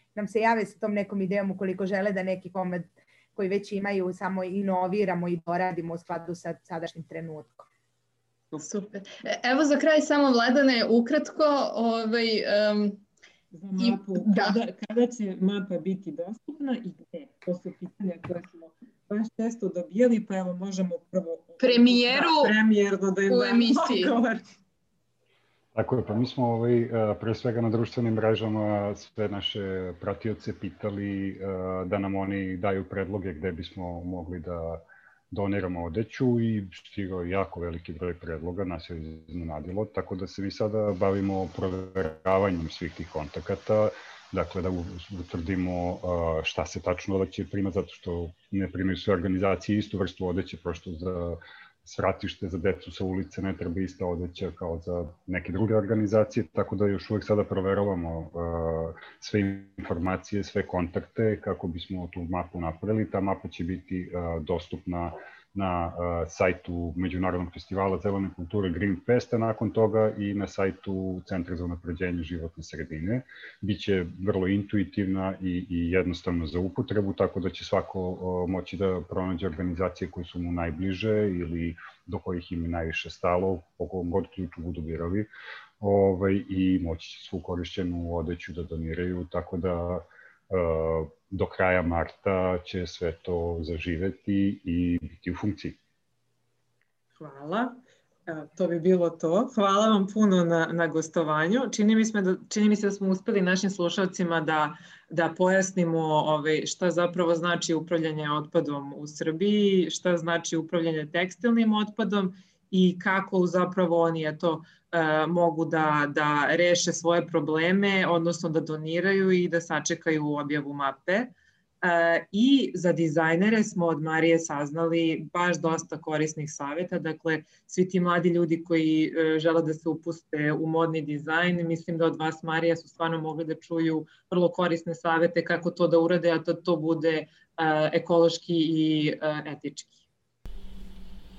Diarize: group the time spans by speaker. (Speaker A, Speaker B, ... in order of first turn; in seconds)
Speaker A: 0.1-7.7
Speaker B: 8.6-13.0, 13.8-14.6, 21.6-22.5, 23.3-24.2
Speaker C: 13.5-24.4, 97.2-140.0
Speaker D: 25.7-85.3, 85.8-95.8